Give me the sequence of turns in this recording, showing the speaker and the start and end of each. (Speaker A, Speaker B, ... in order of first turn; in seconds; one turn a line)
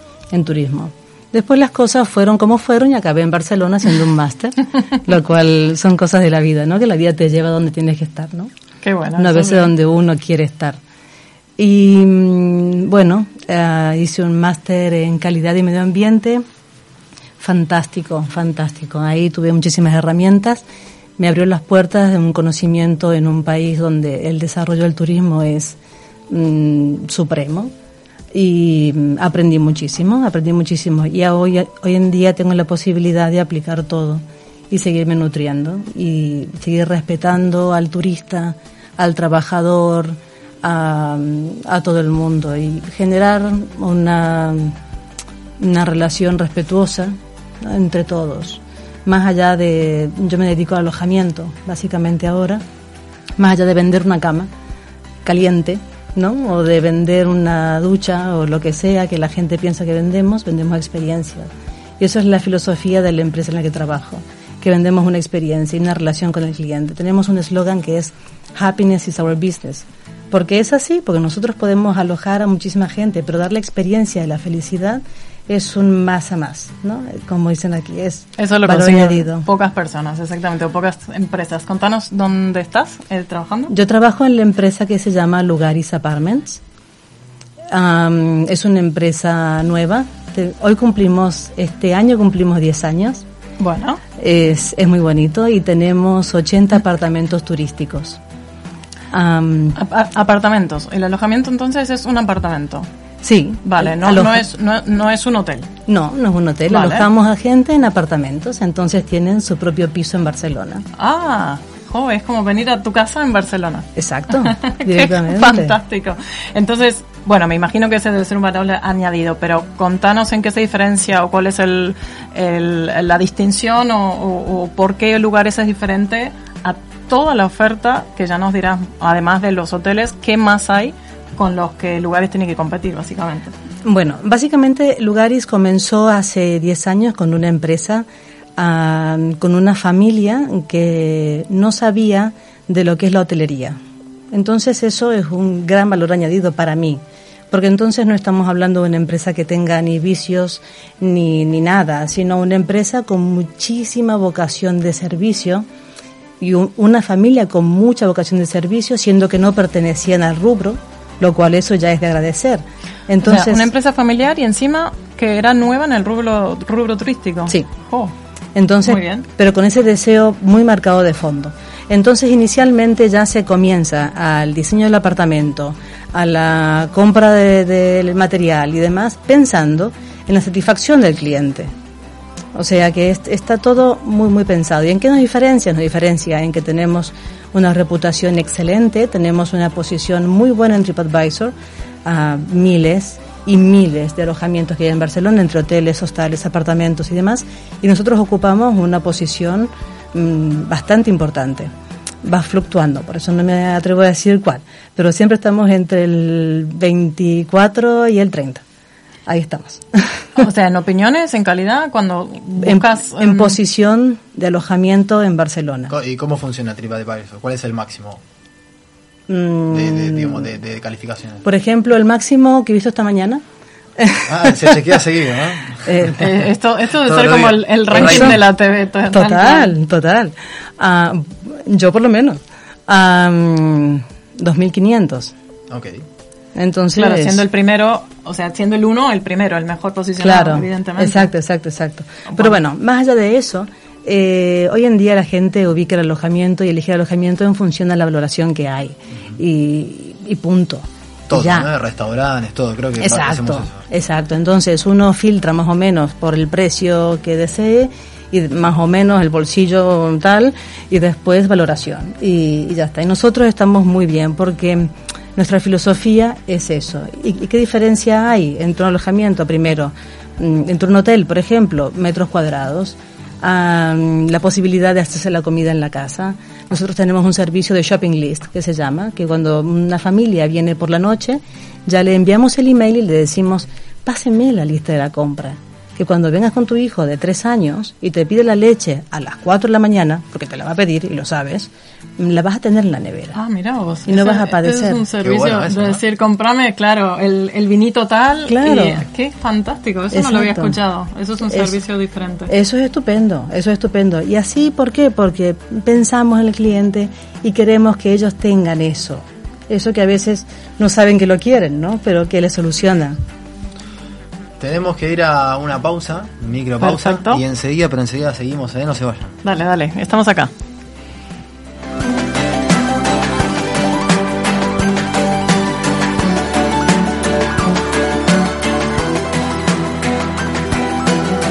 Speaker A: 0.3-8.5
Speaker B: 8.8-9.7
Speaker A: 9.2-10.8
Speaker A: 11.6-16.4
Speaker A: 17.4-20.6
Speaker A: 21.2-25.8
Speaker A: 26.3-27.7
Speaker A: 28.3-44.8
Speaker A: 45.6-52.6
Speaker A: 53.4-54.5
Speaker A: 55.2-79.5
Speaker B: 78.4-83.7
Speaker A: 83.7-86.6
Speaker A: 87.7-93.2
Speaker B: 93.6-94.0
Speaker A: 94.2-98.2
Speaker A: 99.1-99.8
Speaker B: 99.7-102.9
Speaker A: 103.2-104.4
Speaker B: 103.6-105.7
Speaker A: 105.9-110.8
Speaker B: 106.7-107.1
Speaker B: 111.0-133.5
Speaker A: 114.0-115.8
Speaker A: 133.8-143.8
Speaker A: 144.3-155.7
Speaker A: 156.4-163.7
Speaker B: 163.2-168.1
Speaker A: 168.5-181.7
Speaker B: 168.8-169.2
Speaker A: 182.5-191.5
Speaker A: 192.0-201.7
Speaker A: 202.2-208.6
Speaker A: 209.2-210.3
Speaker B: 210.4-213.6
Speaker A: 212.6-215.9
Speaker C: 215.9-218.2
Speaker A: 219.3-220.5
Speaker C: 219.7-221.4
Speaker A: 221.4-223.4
Speaker A: 224.0-225.0
Speaker C: 224.3-226.1
Speaker A: 225.8-226.2
Speaker B: 226.2-229.7
Speaker C: 227.0-228.4
Speaker A: 227.9-228.4
Speaker A: 229.1-235.3
Speaker C: 235.7-236.0
Speaker A: 236.5-237.4
Speaker B: 236.9-241.3
Speaker A: 240.2-251.7
Speaker B: 242.3-242.5
Speaker C: 251.3-253.8
Speaker A: 253.0-293.4
Speaker B: 293.3-302.5
Speaker A: 294.1-295.0
Speaker C: 295.2-296.0
Speaker A: 298.4-299.1
Speaker A: 300.1-300.8
Speaker A: 301.5-301.8
Speaker A: 302.5-313.2
Speaker C: 314.6-319.3
Speaker B: 316.8-317.4
Speaker B: 319.4-320.5